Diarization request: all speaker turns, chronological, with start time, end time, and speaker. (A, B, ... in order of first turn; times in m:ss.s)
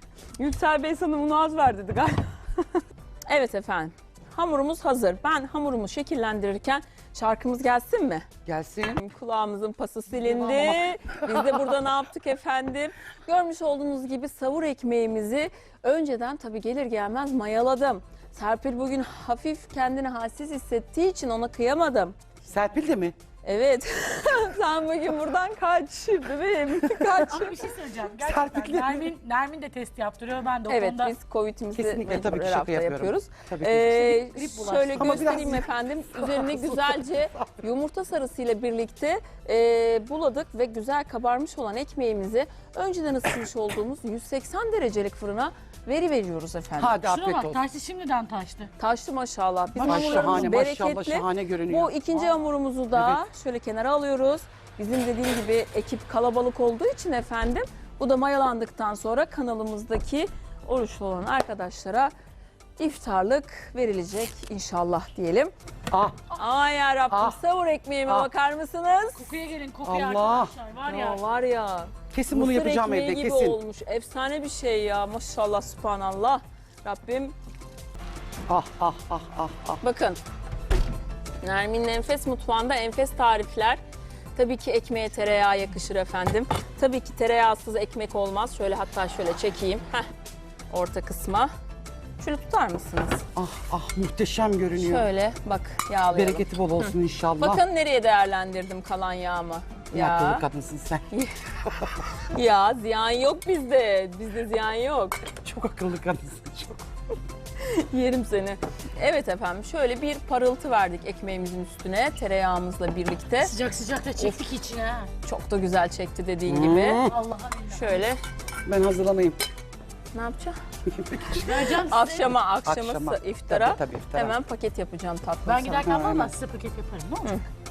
0:00.4-0:08.3 A
0:08.4-0:09.0 B
0:09.0-0:22.2 A
0:10.2-0:11.4 B
0:22.4-0:23.2 B
0:23.4-0:27.6 A
0:27.2-0:31.1 C
0:28.2-0:29.1 B
0:30.7-0:47.0 A
0:31.7-0:34.0 B
0:34.0-0:35.6 C
0:34.9-0:37.6 B
0:46.8-0:47.6 B
0:47.0-0:48.7 C
0:48.8-1:02.1 A
0:49.8-0:50.4 C
0:49.8-0:51.9 B
0:52.9-0:53.2 B
1:02.8-1:05.5 A
1:05.9-1:06.3 B
1:06.3-1:09.3 A
1:07.1-1:07.4 B
1:09.1-1:11.2 C
1:09.8-1:10.5 B
1:10.9-1:17.3 A
1:12.1-1:13.6 B
1:18.5-1:19.8 B
1:19.8-1:20.2 A
1:21.4-1:23.8 A
1:24.3-1:30.1 A
1:30.7-1:31.5 A
1:32.2-1:33.2 A
1:33.3-1:35.1 B
1:34.8-1:40.4 A
1:36.1-1:37.6 B
1:39.9-1:41.0 B
1:41.1-1:41.4 A
1:42.2-1:45.2 A
1:45.4-1:46.8 B
1:47.6-1:53.5 A
1:53.4-1:55.1 C
1:55.2-1:57.1 A
1:56.5-1:57.1 B
1:57.0-1:58.1 C
1:57.7-1:58.2 A
1:58.6-1:59.4 B
2:00.1-2:00.6 A
2:00.8-2:01.5 B
2:01.3-2:02.4 C
2:01.8-2:05.9 A
2:02.6-2:04.4 B
2:05.4-2:07.3 C
2:05.8-2:06.3 B